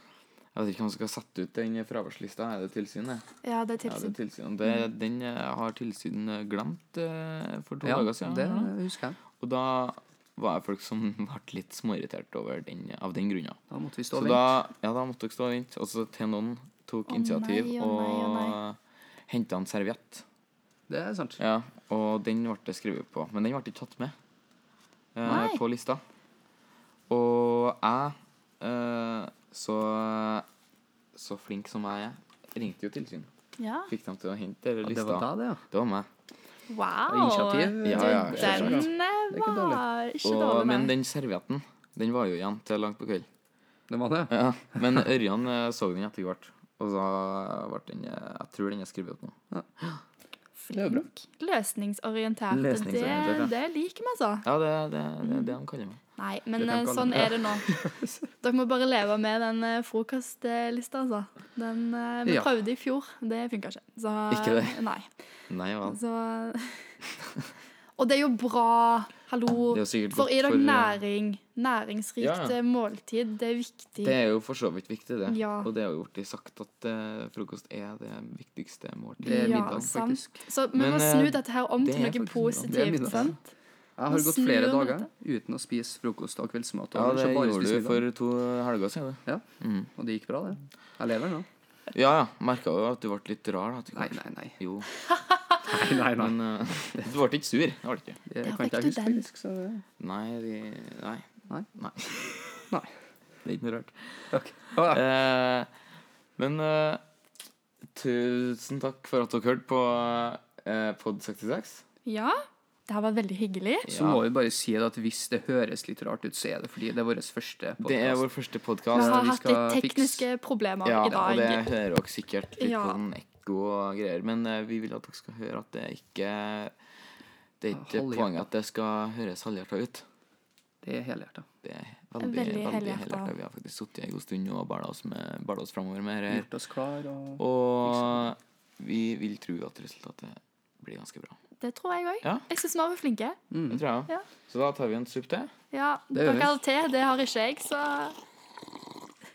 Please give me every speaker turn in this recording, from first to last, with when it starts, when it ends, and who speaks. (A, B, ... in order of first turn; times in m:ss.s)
0:00.5-0:03.2 A
0:03.4-0:04.2 B
0:03.8-0:08.7 A
0:07.8-0:09.2 C
0:09.4-0:13.6 A
0:13.7-0:14.6 C
0:14.1-0:20.2 A
0:17.1-0:18.6 B
0:20.9-0:21.4 C
0:21.4-0:24.1 A
0:25.2-0:26.0 A
0:25.3-0:25.6 B
0:27.1-0:30.4 A
0:31.2-0:33.3 A
0:33.6-0:33.9 B
0:33.9-0:36.1 A
0:34.8-0:35.6 C
0:36.7-0:40.9 B
0:37.1-0:39.8 C
0:37.8-0:38.9 A
0:40.2-0:43.3 A
0:43.9-0:44.3 C
0:44.3-0:50.0 A
0:50.7-0:54.5 B
0:50.7-0:51.1 C
0:52.5-0:53.5 A
0:54.4-0:56.0 A
0:56.2-0:57.7 B
0:56.6-0:58.2 C
0:58.4-1:05.1 B
1:04.3-1:04.8 A
1:05.5-1:06.0 A
1:05.9-1:06.9 B
1:08.0-1:14.2 B
1:09.7-1:11.0 A
1:12.2-1:12.6 A
1:14.0-1:19.9 A
1:15.3-1:15.7 B
1:19.2-1:20.4 C
1:19.2-1:23.5 B
1:20.7-1:23.3 A
1:22.7-1:23.3 C
1:24.0-1:28.0 C
1:24.1-1:25.1 B
1:26.9-1:29.9 A
1:30.0-1:31.5 C
1:31.9-1:34.9 A
1:33.9-1:34.6 C
1:35.6-1:36.4 C
1:36.1-1:38.2 A
1:38.3-1:39.8 C
1:38.4-1:39.2 B
1:40.0-1:42.6 A
1:43.4-1:44.2 A
1:44.3-1:45.0 C
1:44.8-1:45.7 A
1:46.4-1:47.0 A
1:47.9-1:51.8 A
1:52.0-1:53.9 B
1:53.9-1:54.2 A
1:53.9-1:58.2 C
1:57.8-1:59.2 A
1:58.9-2:00.3 C
1:58.9-2:01.7 B
2:00.8-2:06.7 A
2:02.6-2:03.0 B
2:07.6-2:10.0 A
2:07.7-2:08.4 C
2:10.8-2:11.4 C
2:11.6-2:16.5 A
2:12.2-2:13.3 B
2:16.3-2:18.3 C
2:17.4-2:21.4 A
2:21.6-2:23.4 B
2:23.5-2:23.8 C
2:23.7-2:25.5 A
2:25.7-2:28.2 B
2:26.1-2:26.6 C